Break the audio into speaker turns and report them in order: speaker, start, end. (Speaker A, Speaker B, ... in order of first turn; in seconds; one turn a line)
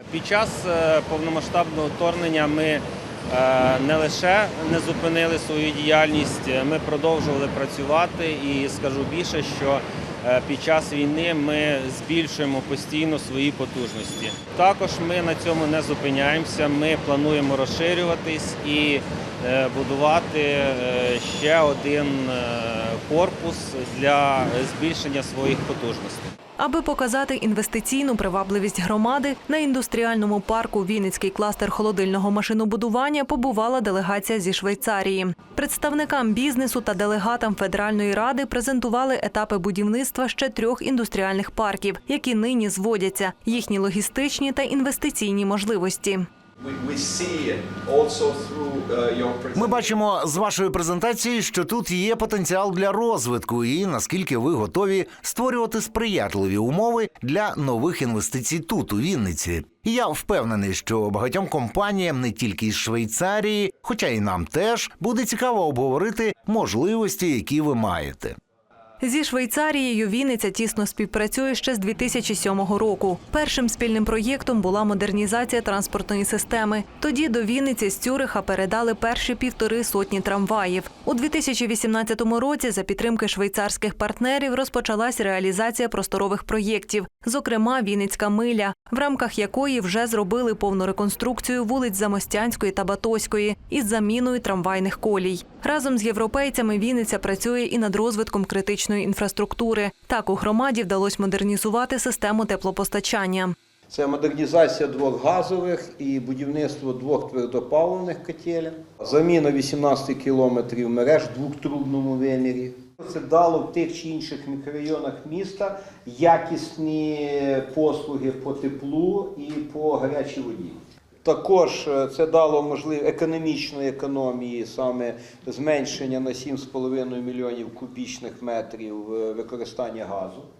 Speaker A: 0.1-26.3
Speaker B: 26.6-46.3
Speaker C: 46.6-50.0
Speaker D: 49.5-68.3
Speaker B: 69.0-103.5
Speaker E: 103.9-130.5